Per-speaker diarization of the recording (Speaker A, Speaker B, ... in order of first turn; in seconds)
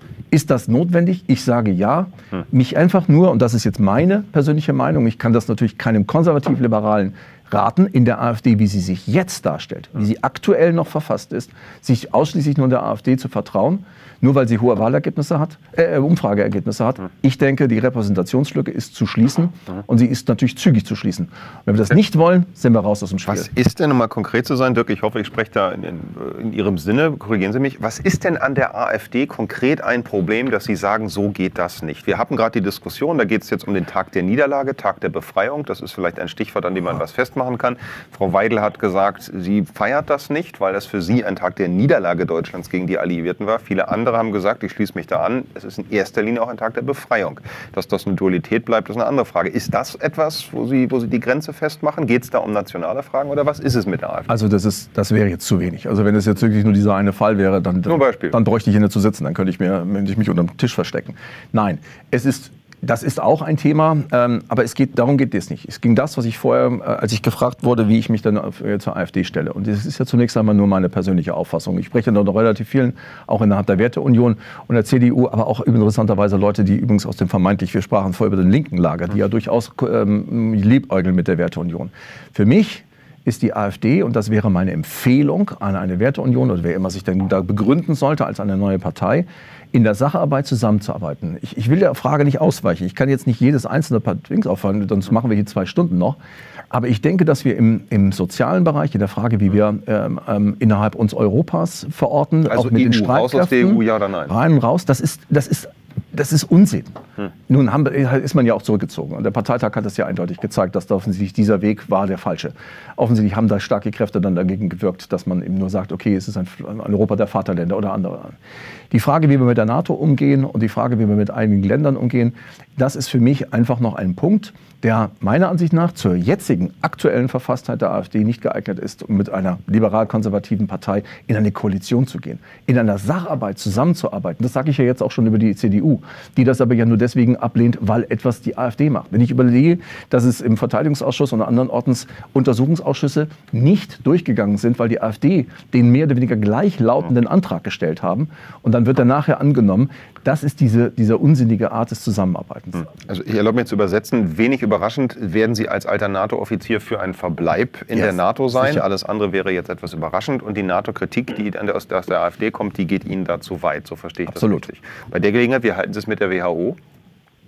Speaker A: 0.3-23.5, 54.3-96.2, 96.7-107.0, 107.5-118.3, 118.9-152.9, 157.9-158.8, 164.3-164.7
Speaker B: 23.2-54.3, 57.9-58.4, 102.5-104.3, 152.9-166.8